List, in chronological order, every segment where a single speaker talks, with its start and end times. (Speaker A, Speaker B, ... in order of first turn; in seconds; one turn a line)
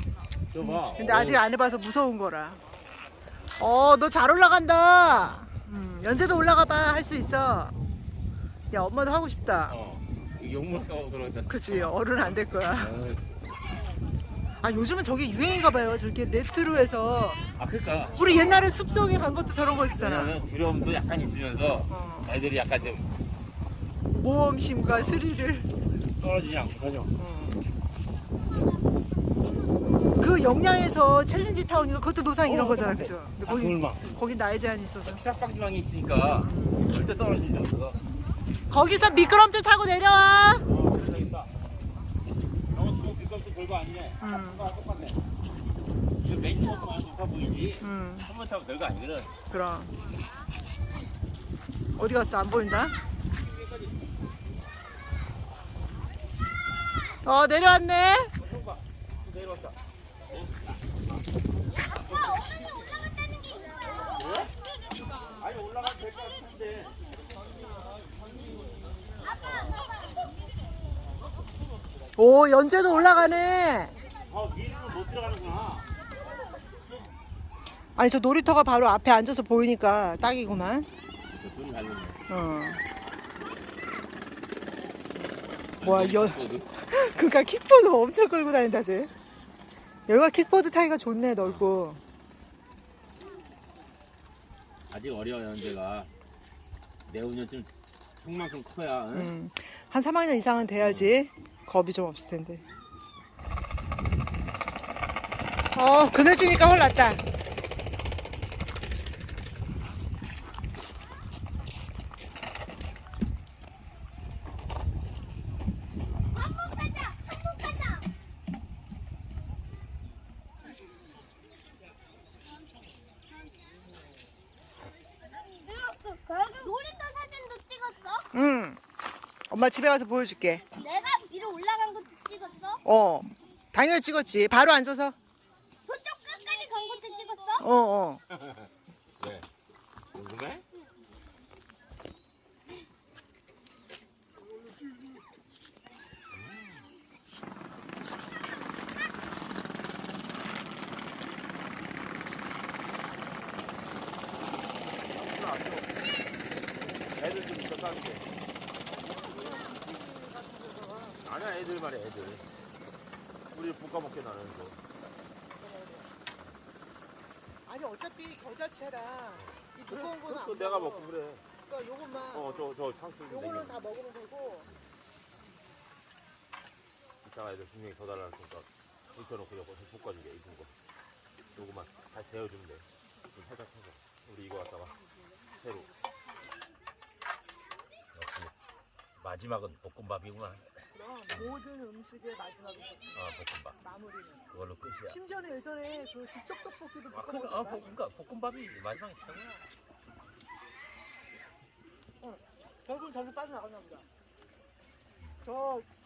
Speaker A: 0.5-1.4
Speaker B: 0.6-2.6
Speaker B: 3.6-7.7
Speaker B: 8.7-9.8
Speaker A: 9.7-13.2
Speaker B: 11.5-13.0
Speaker B: 14.6-17.4
Speaker A: 17.6-18.4
Speaker B: 18.1-20.4
Speaker A: 19.9-23.1
Speaker B: 21.9-22.4
Speaker B: 24.1-25.7
Speaker A: 26.2-27.1
Speaker B: 27.2-27.6
Speaker B: 30.2-35.2
Speaker A: 32.4-34.1
Speaker A: 35.0-38.0
Speaker B: 36.4-36.9
Speaker B: 38.7-40.7
Speaker A: 40.6-41.5
Speaker A: 42.7-45.2
Speaker B: 44.2-44.6
Speaker A: 46.2-49.3
Speaker B: 47.8-48.3
Speaker B: 49.5-49.9
Speaker B: 52.0-52.9
Speaker A: 53.4-53.9
Speaker B: 57.2-58.3
Speaker A: 58.4-59.8
Speaker A: 60.3-60.7
Speaker A: 64.0-64.6
Speaker A: 65.2-67.0
Speaker B: 72.2-73.9
Speaker A: 74.3-75.9
Speaker B: 78.0-80.9
Speaker A: 81.3-82.2
Speaker B: 82.3-82.8
Speaker A: 85.8-86.7
Speaker B: 85.8-89.1
Speaker B: 90.1-92.0
Speaker A: 94.9-96.1
Speaker A: 97.0-97.7
Speaker A: 98.2-99.3
Speaker B: 99.1-102.6
Speaker A: 100.8-101.1
Speaker B: 105.7-107.2
Speaker C: 116.6-118.0
Speaker C: 125.4-128.2
Speaker B: 128.3-128.8
Speaker B: 129.5-130.6
Speaker C: 130.8-132.8
Speaker B: 132.8-135.2
Speaker C: 135.9-137.6
Speaker B: 137.6-138.2
Speaker A: 138.3-138.7
Speaker A: 139.2-139.5
Speaker A: 140.1-140.6
Speaker A: 146.3-146.8
Speaker A: 155.0-156.1
Speaker A: 157.0-158.2
Speaker B: 158.9-161.2
Speaker A: 161.2-162.4
Speaker A: 163.5-164.8
Speaker B: 165.6-166.1
Speaker B: 167.7-171.1
Speaker A: 169.4-171.4
Speaker B: 171.7-172.7
Speaker A: 172.3-173.8
Speaker B: 173.3-174.7
Speaker A: 177.2-180.7
Speaker A: 181.5-185.0
Speaker A: 185.6-185.9
Speaker A: 188.1-188.5
Speaker A: 189.2-190.7
Speaker B: 190.9-193.2
Speaker A: 191.3-191.6
Speaker A: 193.1-193.8
Speaker B: 193.8-194.4
Speaker A: 194.5-195.2
Speaker B: 195.1-197.9
Speaker A: 197.1-199.7
Speaker B: 202.2-204.1
Speaker B: 205.4-205.9